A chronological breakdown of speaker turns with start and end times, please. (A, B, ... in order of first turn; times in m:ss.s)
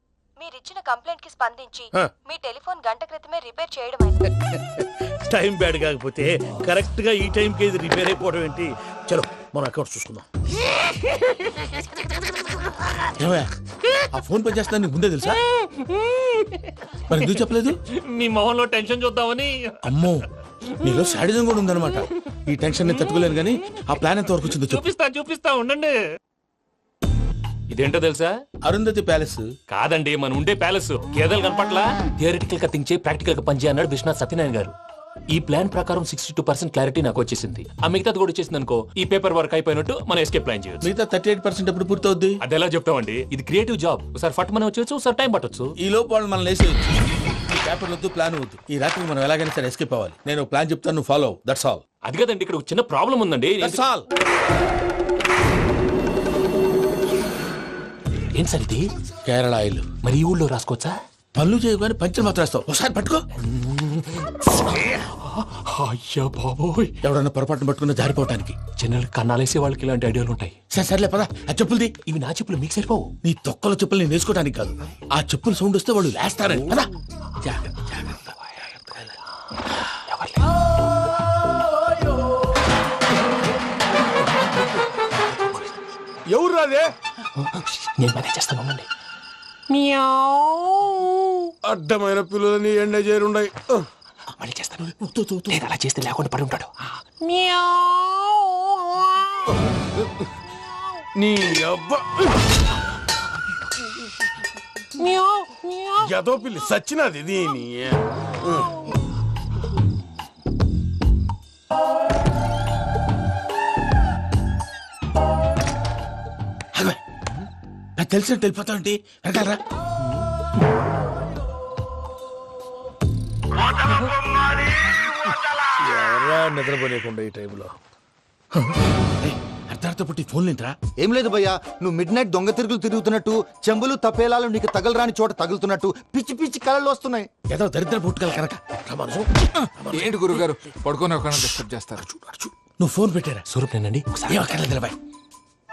0:00.4-0:04.3 A
0:04.5-0:10.3 B
0:13.2-0:13.5 C
0:14.1-0:15.4 C
0:15.5-0:16.7 D
0:17.1-0:17.8 C
0:18.0-0:19.8 D
0:19.8-0:20.3 C
0:20.8-0:24.8 C
0:24.5-0:25.9 D
0:27.7-0:28.4 D
0:28.6-0:29.5 C
0:29.7-0:34.8 D
0:35.3-0:40.9 D
0:40.8-0:42.4 C
0:42.4-0:45.7 D
0:45.8-0:51.8 C
0:52.1-0:53.8 D
0:53.6-0:54.1 C
0:58.4-0:58.9 D
0:59.3-0:59.9 C
1:00.0-1:01.0 D
1:01.4-1:03.2 C
1:03.4-1:07.0 D
1:07.0-1:08.6 C
1:08.8-1:10.6 D
1:10.7-1:11.9 C
1:12.1-1:13.1 D
1:13.2-1:16.9 C
1:17.4-1:18.3 C
1:18.5-1:19.2 D
1:19.9-1:20.8 D
1:24.3-1:24.7 D
1:25.3-1:25.8 D
1:26.3-1:26.8 E
1:27.4-1:28.9 D
1:29.7-1:31.5 D
1:31.7-1:33.9 E
1:34.4-1:35.0 D
1:35.0-1:35.6 C
1:35.5-1:38.5 D
1:41.2-1:42.4 E
1:45.0-1:46.0 D
1:46.0-1:48.7 E
1:56.8-1:57.0 C
1:58.0-1:59.6 C
2:05.8-2:07.7 B
2:09.2-2:10.8 C
2:11.0-2:17.3 F
2:17.5-2:18.6 C
2:18.9-2:19.3 B
2:19.8-2:20.4 B
2:19.9-2:22.2 G
2:22.8-2:23.4 C
2:23.5-2:24.5 D
2:24.3-2:25.0 C